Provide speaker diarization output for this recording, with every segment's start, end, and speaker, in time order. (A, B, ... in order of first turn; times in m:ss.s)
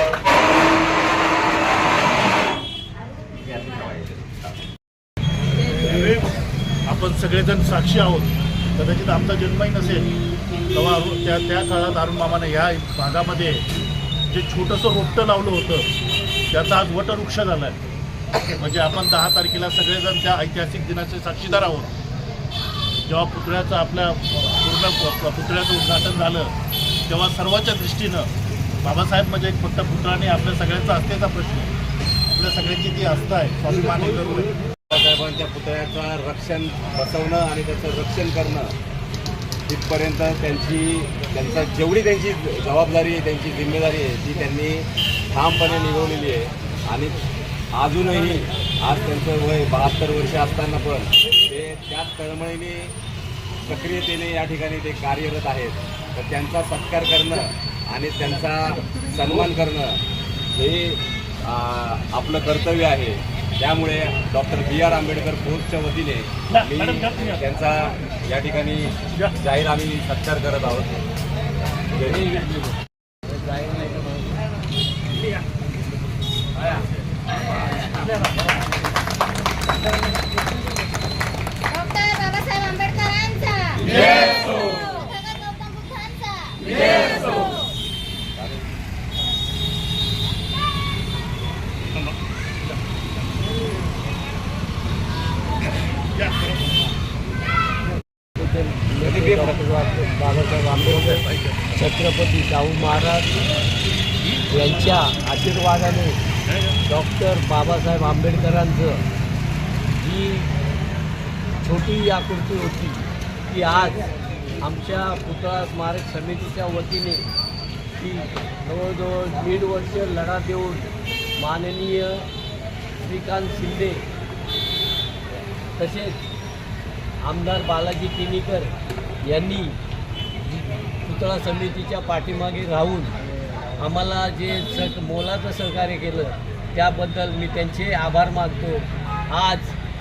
0:03.6-0:04.0 A
0:05.7-0:10.1 B
0:10.7-0:13.6 B
0:14.3-0:15.9 B
0:16.5-0:17.8 B
0:18.5-0:21.9 B
0:23.1-0:26.5 B
0:27.1-0:28.3 B
0:28.8-0:31.7 B
0:32.3-0:34.5 B
0:34.9-0:38.8 A
0:39.7-0:47.2 A
0:47.7-0:52.9 A
0:53.6-1:00.0 A
1:00.5-1:11.0 A
1:06.5-1:07.4 B
1:12.0-1:12.2 A
1:12.0-1:12.8 C
1:13.3-1:14.1 C
1:21.7-1:27.7 D
1:36.2-1:36.5 B
1:38.4-1:43.3 C
1:39.0-1:39.6 A
1:44.4-1:46.2 C
1:46.9-1:49.0 C
1:49.9-1:50.5 C
1:51.6-1:54.1 C
1:54.6-1:57.3 C
1:57.9-2:02.3 C
2:03.0-2:04.0 C
2:05.8-2:06.2 C
2:07.2-2:09.8 C
2:10.9-2:13.2 C
2:13.8-2:19.8 C